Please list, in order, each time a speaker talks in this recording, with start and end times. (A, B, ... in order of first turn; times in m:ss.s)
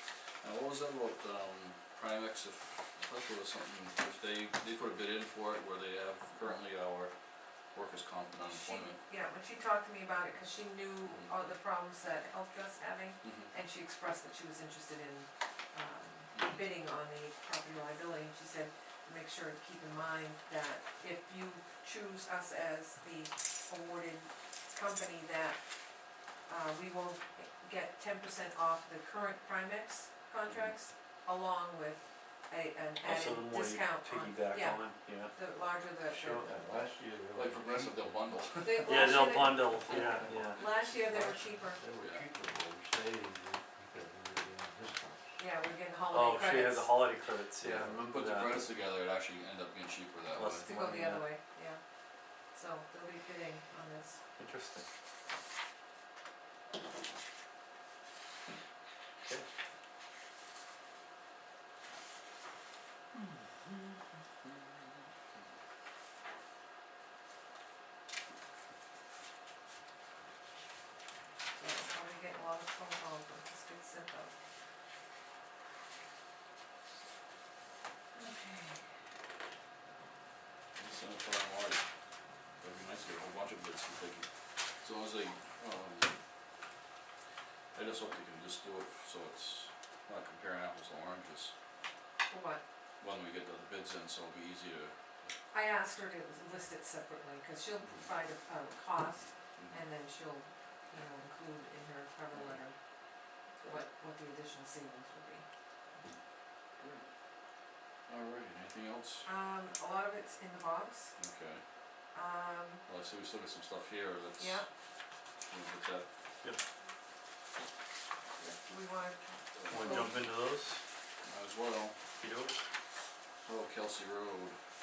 0:00.4-0:07.1 A
0:07.7-0:09.0 A
0:08.5-0:25.6 B
0:13.2-0:13.5 A
0:16.3-0:16.6 A
0:26.5-0:36.9 B
0:30.5-0:30.7 A
0:33.0-0:35.4 C
0:36.1-0:37.5 C
0:36.4-0:38.1 D
0:37.3-0:39.2 A
0:38.6-0:41.8 B
0:38.9-0:40.6 C
0:39.9-0:40.6 A
0:40.0-0:45.4 D
0:42.0-0:42.2 A
0:45.4-0:47.0 B
0:46.1-0:48.5 C
0:47.6-0:48.2 D
0:47.9-0:50.7 A
0:50.3-0:51.3 C
0:50.6-0:51.8 B
0:52.5-0:54.2 B
0:54.4-0:54.8 C
1:11.5-1:14.3 B
1:18.1-1:18.8 B
1:20.8-1:21.8 A
1:22.6-1:24.3 A
1:24.8-1:26.1 A
1:27.7-1:31.5 A
1:32.3-1:32.6 B
1:33.0-1:35.3 A
1:35.5-1:42.8 B
1:42.3-1:42.6 A
1:43.6-1:45.4 B
1:48.1-1:49.3 A
1:49.3-1:51.1 B
1:51.2-1:51.6 A
1:52.1-1:52.8 B
1:52.9-1:54.6 A
1:54.4-1:54.7 B
1:55.5-1:56.1 A
1:58.4-2:00.2 B
1:59.6-2:00.3 A
1:59.7-2:00.8 C
2:01.2-2:02.0 A
2:02.2-2:02.6 C
2:03.4-2:04.6 A